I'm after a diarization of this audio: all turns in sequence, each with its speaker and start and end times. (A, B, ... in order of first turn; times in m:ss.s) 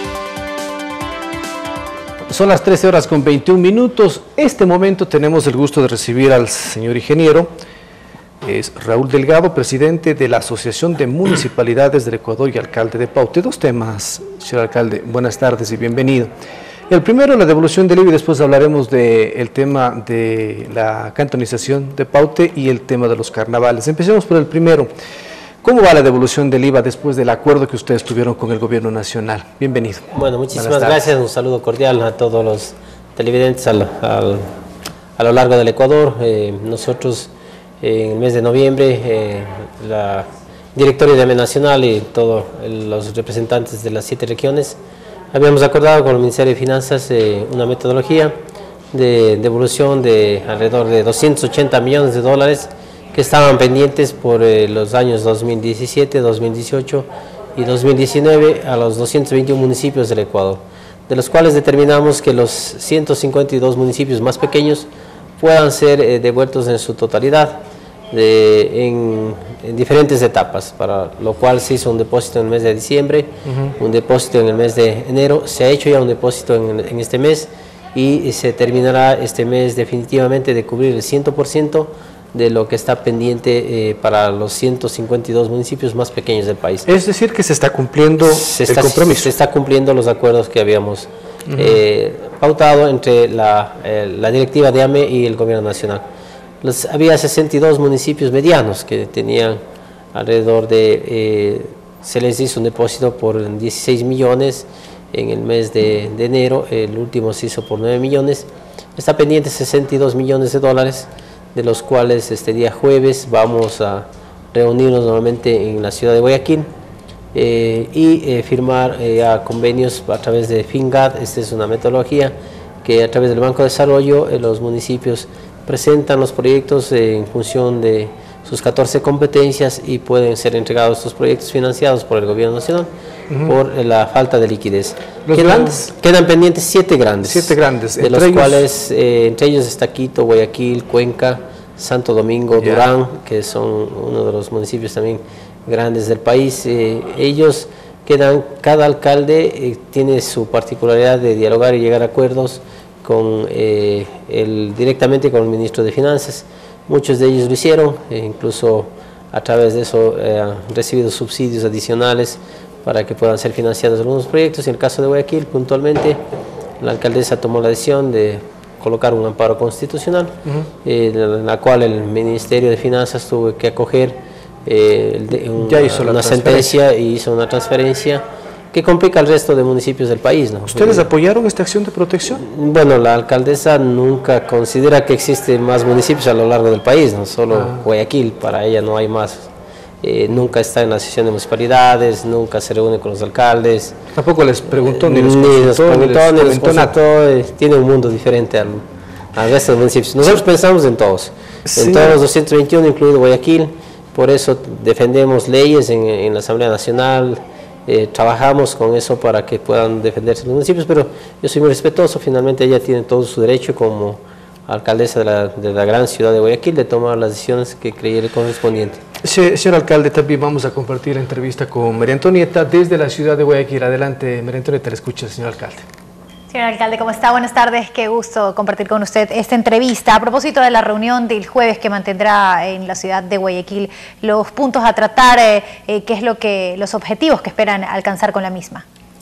0:02.3-0:07.5 A
0:08.4-0:16.3 A
0:16.9-0:24.9 A
0:25.6-0:31.0 A
0:30.1-0:34.4 B
0:35.2-0:44.8 B
0:45.3-0:48.3 B
0:48.9-1:04.9 B
1:05.4-1:07.6 B
1:08.1-1:26.9 B
1:13.5-1:13.7 A
1:26.9-1:29.3 A
1:28.2-1:36.0 B
1:31.5-1:31.8 A
1:36.6-1:39.6 B
1:40.1-1:56.7 B
1:57.3-2:12.9 B
2:13.3-2:13.6 A
2:13.4-2:46.2 B
2:15.3-2:15.9 A
2:17.2-2:18.6 A
2:22.6-2:22.9 A
2:46.8-3:01.1 B
2:55.6-2:56.8 A
3:00.7-3:02.4 A
3:02.3-3:09.5 B
3:07.5-3:07.8 A
3:10.0-3:14.0 B
3:14.1-3:17.0 A
3:14.9-3:39.0 B
3:21.7-3:22.2 A
3:39.2-3:45.8 A
3:46.5-3:58.8 C